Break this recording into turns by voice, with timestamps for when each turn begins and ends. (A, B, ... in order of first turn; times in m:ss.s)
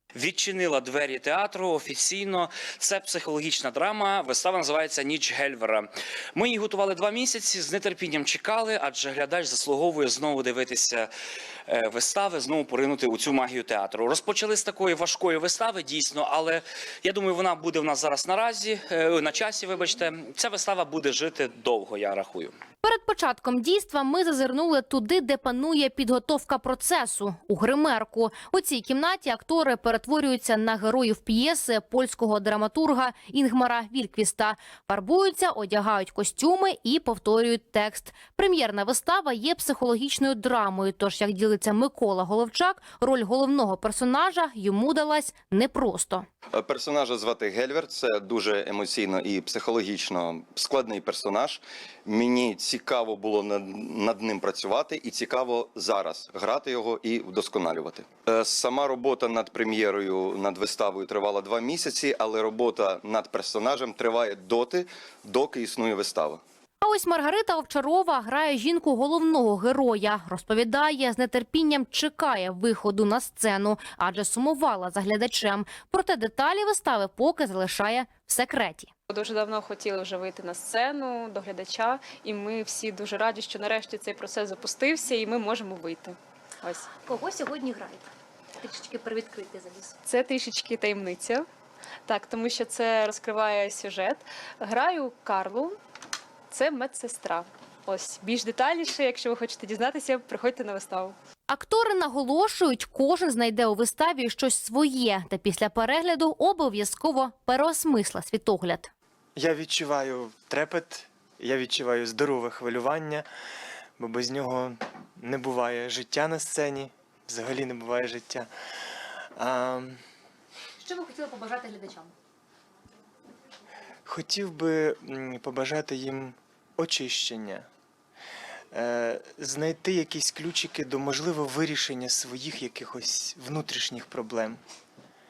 0:00.2-0:11.1 A
0:11.7-0:22.5 A
0:22.8-0:46.3 B
0:46.8-0:51.6 C
0:52.1-0:57.9 C
0:58.5-1:02.7 C
1:03.2-1:04.2 C
1:05.4-1:06.1 C
1:06.8-1:18.9 B
1:19.1-1:26.9 D
1:27.2-1:27.9 B
1:30.0-1:31.5 D
1:32.1-1:35.8 D
1:36.5-1:41.2 D
1:41.5-1:48.9 B
1:49.4-1:53.3 E
1:54.0-1:58.5 E
1:59.4-2:00.0 E
2:04.1-2:07.7 E
2:08.7-2:14.6 E